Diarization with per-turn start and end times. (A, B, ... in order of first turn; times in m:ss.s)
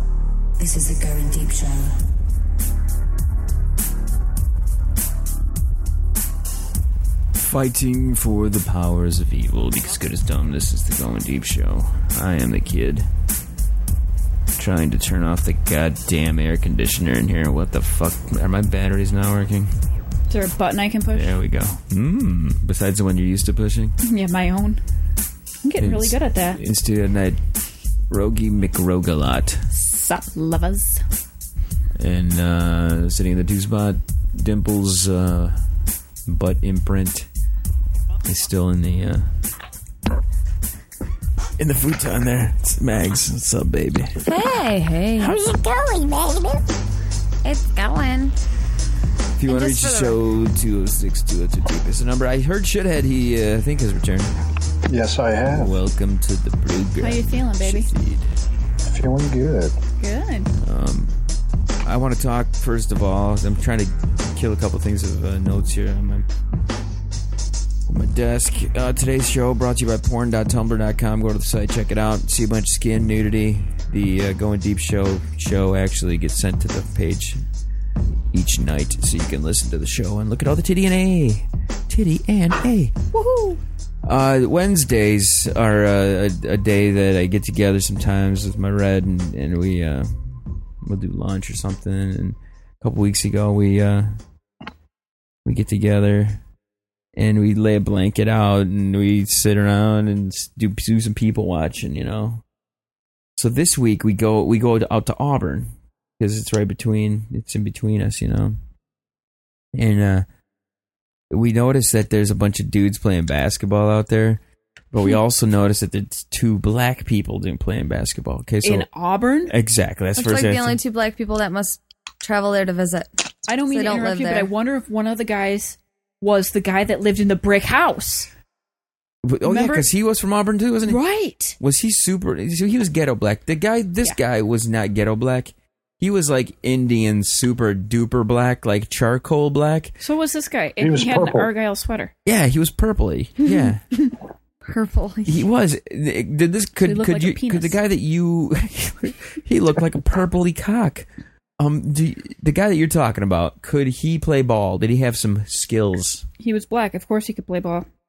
0:00.6-0:01.9 A
0:07.3-0:13.1 B
0:14.5-0:19.7 B
0:20.3-0:21.3 C
0:21.1-0:24.0 B
0:24.0-0:24.8 C
0:25.6-0:26.6 C
0:25.8-0:27.4 B
0:28.1-0:29.7 B
0:29.7-0:31.0 C
0:32.0-0:35.6 B
0:36.3-0:37.3 B
0:38.2-0:39.3 B
0:41.6-0:44.3 B
0:44.2-0:45.4 D
0:45.2-0:46.2 B
0:45.8-0:46.4 A
0:47.4-0:48.4 D
0:49.4-0:54.3 B
0:49.5-0:50.2 D
0:54.9-0:55.7 E
0:55.5-0:58.3 B
0:57.0-0:57.9 C
0:58.8-0:59.8 E
1:00.0-1:00.5 C
1:00.6-1:01.1 B
1:01.8-1:06.2 B
1:07.9-1:17.4 B
1:18.3-1:23.0 B
1:23.1-1:23.6 C
1:24.0-1:34.2 B
1:35.4-1:36.4 B
1:37.2-1:42.4 B
1:43.4-1:48.6 B
1:49.7-1:50.2 B
1:51.3-1:54.4 B
1:54.9-1:58.8 B
1:58.6-1:59.5 C
1:59.5-2:00.8 B
2:00.2-2:04.5 D
2:03.5-2:08.3 C
2:09.2-2:11.0 B
2:09.4-2:09.9 C
2:10.8-2:11.6 C
2:11.6-2:20.0 B
2:20.0-2:22.1 C
2:20.8-2:21.5 E
2:22.2-2:23.8 B
2:23.4-2:23.7 C
2:24.6-2:25.4 D
2:25.2-2:31.1 B
2:26.8-2:27.8 C
2:31.6-2:36.2 B
2:36.4-2:37.8 C